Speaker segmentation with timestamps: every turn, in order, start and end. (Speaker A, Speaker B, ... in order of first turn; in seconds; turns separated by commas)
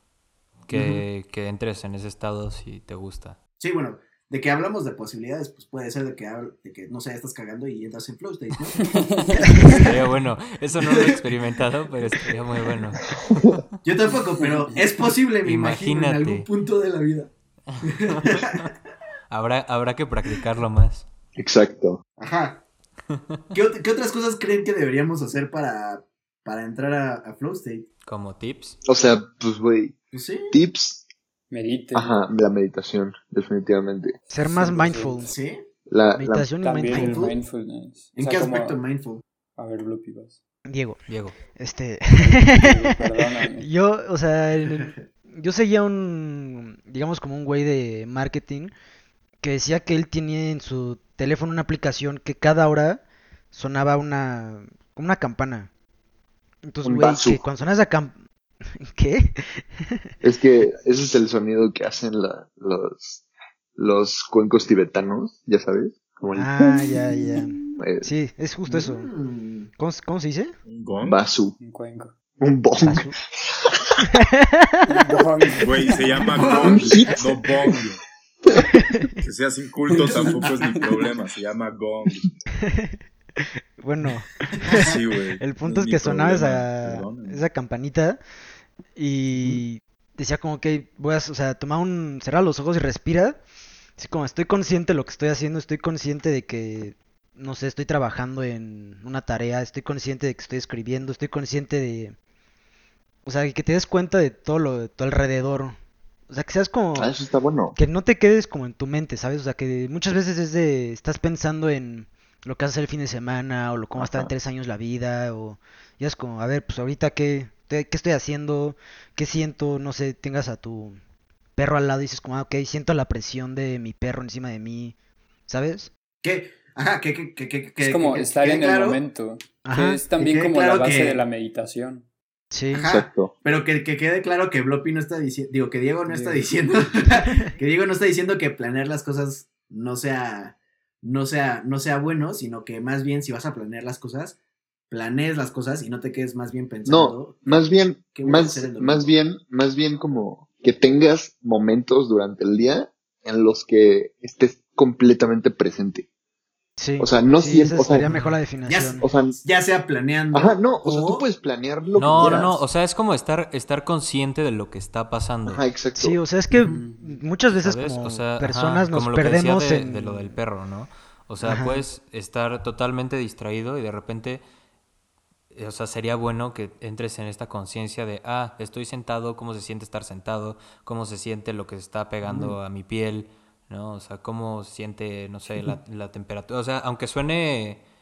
Speaker A: 0.7-3.4, Speaker B: 0.7-1.0, Speaker B: 3.6-9.9, Speaker C: 8.9-9.4, Speaker A: 9.6-13.6, Speaker D: 13.3-13.6, Speaker B: 13.8-18.7, Speaker A: 15.4-16.5, Speaker A: 17.7-18.4, Speaker A: 19.3-21.1, Speaker D: 21.4-22.0, Speaker B: 22.2-22.6, Speaker B: 23.5-27.9, Speaker A: 28.1-28.8, Speaker D: 28.9-30.0, Speaker B: 30.1-30.6, Speaker D: 30.5-31.0, Speaker C: 31.5-32.2, Speaker D: 31.9-34.2, Speaker E: 34.3-35.3, Speaker C: 34.4-35.2, Speaker B: 35.2-35.6, Speaker D: 35.9-36.5, Speaker E: 36.2-37.3, Speaker C: 36.6-38.8, Speaker B: 36.9-37.4, Speaker B: 38.1-39.2, Speaker C: 39.6-40.4, Speaker E: 40.6-48.7, Speaker A: 41.1-41.4, Speaker C: 42.3-43.7, Speaker B: 44.7-45.1, Speaker E: 49.4-55.7, Speaker E: 56.6-58.2, Speaker D: 56.8-57.4, Speaker E: 58.8-60.0, Speaker D: 60.2-63.2, Speaker D: 63.8-67.0, Speaker E: 66.4-69.1, Speaker D: 67.8-68.1, Speaker B: 68.7-69.7, Speaker E: 69.8-70.5, Speaker F: 70.7-71.2, Speaker D: 71.0-71.6, Speaker C: 71.6-72.1, Speaker D: 72.4-74.0, Speaker E: 72.8-73.2, Speaker E: 74.3-75.0, Speaker C: 74.9-75.9, Speaker F: 75.6-78.0, Speaker B: 76.3-77.2, Speaker D: 76.6-77.4, Speaker F: 79.2-82.3, Speaker B: 80.0-80.9, Speaker E: 82.6-83.0, Speaker E: 83.8-88.2, Speaker F: 84.8-87.4, Speaker E: 89.0-93.4, Speaker B: 89.4-89.6, Speaker E: 94.0-102.2, Speaker E: 103.2-105.8, Speaker E: 106.3-107.1, Speaker D: 106.9-107.8, Speaker E: 107.8-121.0, Speaker D: 114.0-114.3, Speaker E: 121.6-125.0, Speaker E: 125.5-125.9, Speaker B: 126.2-129.0, Speaker C: 127.8-132.1, Speaker E: 129.7-130.1, Speaker B: 130.2-131.2, Speaker E: 132.5-132.9, Speaker B: 132.7-144.4, Speaker D: 132.8-133.3, Speaker B: 144.9-149.1, Speaker D: 146.8-156.1, Speaker E: 156.8-159.1, Speaker D: 157.0-158.1, Speaker B: 158.7-161.2, Speaker D: 159.0-159.4, Speaker D: 160.3-162.6, Speaker A: 161.9-165.6, Speaker B: 162.0-162.6, Speaker D: 165.5-166.2, Speaker E: 165.9-170.4, Speaker C: 166.7-167.1, Speaker A: 167.5-174.4, Speaker E: 171.4-171.8, Speaker A: 175.5-187.8, Speaker B: 182.2-182.6